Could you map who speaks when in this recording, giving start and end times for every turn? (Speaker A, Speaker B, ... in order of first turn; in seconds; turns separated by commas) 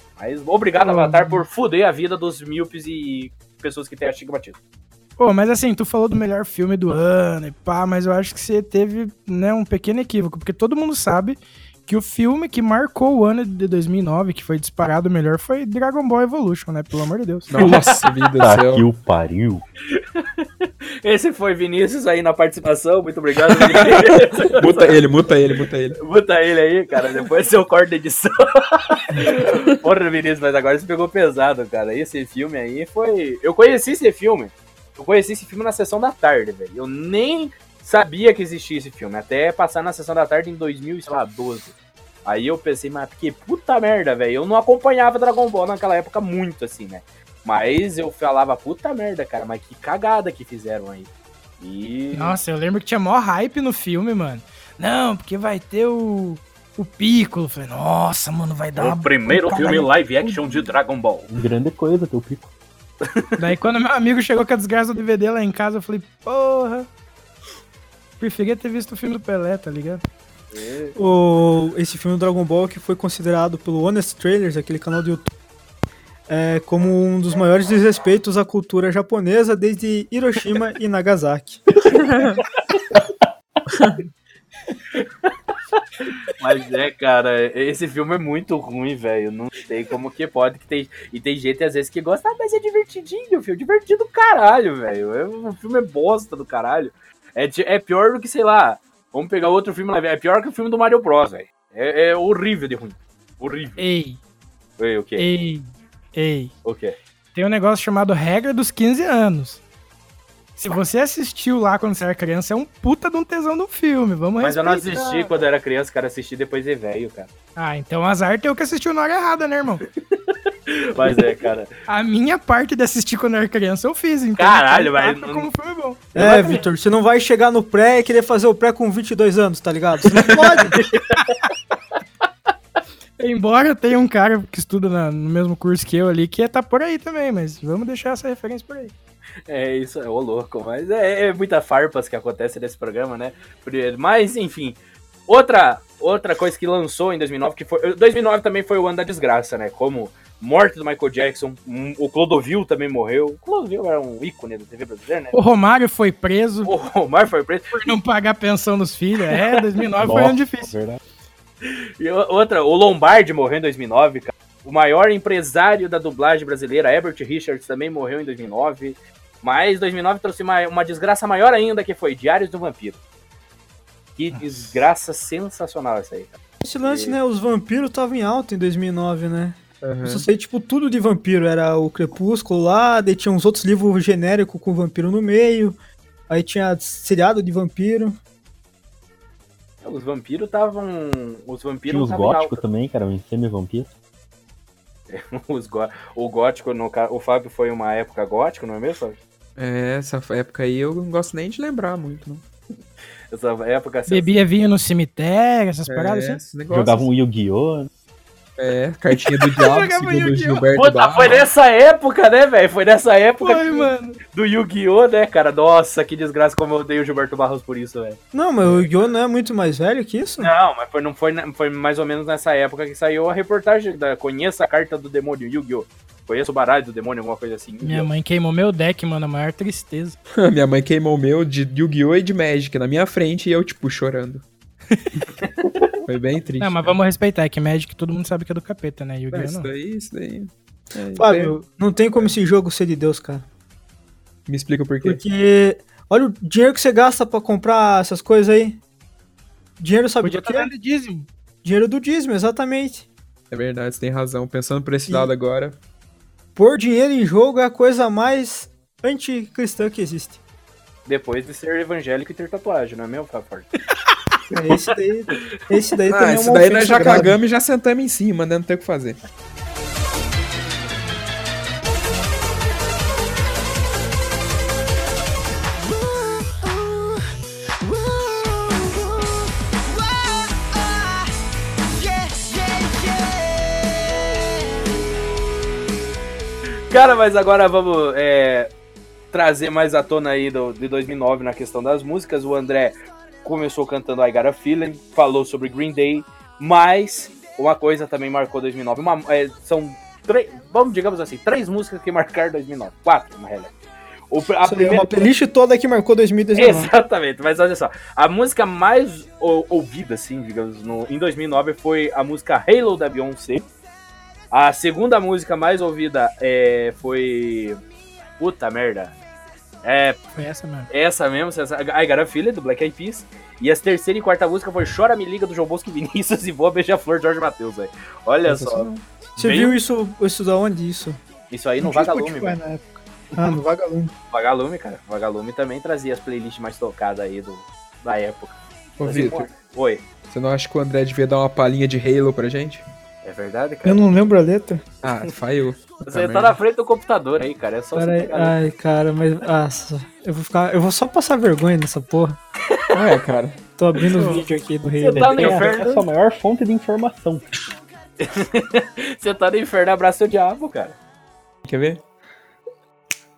Speaker A: 0.2-4.6, Speaker B: 0.8-1.4, Speaker B: 5.2-17.5, Speaker C: 17.5-18.8, Speaker D: 18.4-19.6, Speaker A: 19.9-25.1, Speaker C: 23.6-26.0, Speaker A: 26.0-51.1, Speaker A: 51.6-52.4, Speaker B: 52.1-60.6, Speaker A: 58.8-61.3, Speaker D: 61.3-62.5, Speaker B: 63.4-66.9, Speaker B: 68.2-70.0, Speaker A: 70.5-71.0, Speaker E: 71.0-75.3, Speaker E: 76.3-81.6, Speaker C: 81.9-82.4, Speaker C: 83.7-84.0, Speaker A: 85.0-85.8, Speaker A: 86.4-103.8, Speaker B: 103.8-104.2, Speaker A: 104.8-105.2, Speaker B: 105.2-106.5, Speaker A: 106.6-107.0, Speaker B: 107.3-109.6, Speaker B: 110.6-115.3, Speaker A: 114.4-117.3, Speaker B: 117.5-119.8, Speaker A: 120.1-121.7, Speaker B: 121.9-126.1, Speaker A: 124.4-125.5, Speaker A: 126.1-126.6, Speaker E: 126.1-130.8, Speaker A: 130.2-131.4, Speaker B: 133.2-138.9, Speaker A: 139.5-155.4, Speaker B: 155.3-156.7, Speaker A: 156.6-157.9, Speaker B: 157.7-160.7, Speaker A: 159.3-159.6, Speaker D: 160.0-161.0, Speaker A: 161.7-173.0, Speaker A: 174.2-177.2, Speaker E: 176.6-185.8, Speaker C: 179.8-180.2, Speaker E: 186.3-188.2, Speaker A: 189.8-192.6, Speaker D: 191.9-193.9, Speaker A: 195.1-199.2, Speaker C: 199.6-202.4, Speaker A: 203.3-204.3, Speaker B: 204.1-206.4, Speaker C: 205.9-207.1, Speaker D: 206.7-207.9, Speaker C: 208.6-211.5, Speaker B: 209.4-210.7, Speaker A: 210.7-218.2, Speaker B: 213.4-214.2, Speaker E: 218.3-220.5, Speaker A: 220.4-228.1, Speaker B: 227.8-230.2, Speaker C: 230.4-234.4, Speaker A: 235.4-235.9, Speaker C: 236.1-236.9, Speaker B: 236.6-239.7, Speaker C: 239.3-241.6, Speaker E: 241.2-243.4, Speaker C: 244.5-245.2, Speaker E: 245.0-248.8, Speaker E: 249.8-250.7, Speaker B: 250.2-251.3, Speaker E: 251.6-253.1, Speaker C: 253.5-255.8, Speaker E: 256.6-260.4, Speaker A: 261.1-263.7, Speaker E: 264.5-267.4, Speaker C: 266.1-269.2, Speaker A: 286.9-288.7, Speaker A: 289.3-303.7, Speaker A: 304.3-305.3, Speaker E: 304.6-306.9, Speaker A: 306.5-313.7, Speaker A: 314.5-317.8, Speaker A: 318.4-319.1, Speaker A: 319.8-320.2, Speaker B: 320.4-320.9, Speaker A: 320.9-329.8, Speaker E: 328.4-331.2, Speaker A: 331.5-332.6, Speaker E: 331.8-334.1, Speaker A: 334.3-340.0, Speaker C: 339.0-339.5, Speaker C: 340.3-342.8, Speaker A: 343.2-344.2, Speaker E: 343.8-344.8, Speaker C: 345.0-346.6, Speaker A: 346.0-348.6, Speaker E: 347.9-352.4, Speaker C: 352.9-353.6, Speaker E: 353.8-355.8, Speaker B: 354.1-354.4, Speaker A: 354.9-356.1, Speaker D: 355.1-357.5, Speaker A: 358.2-360.9, Speaker C: 361.6-362.0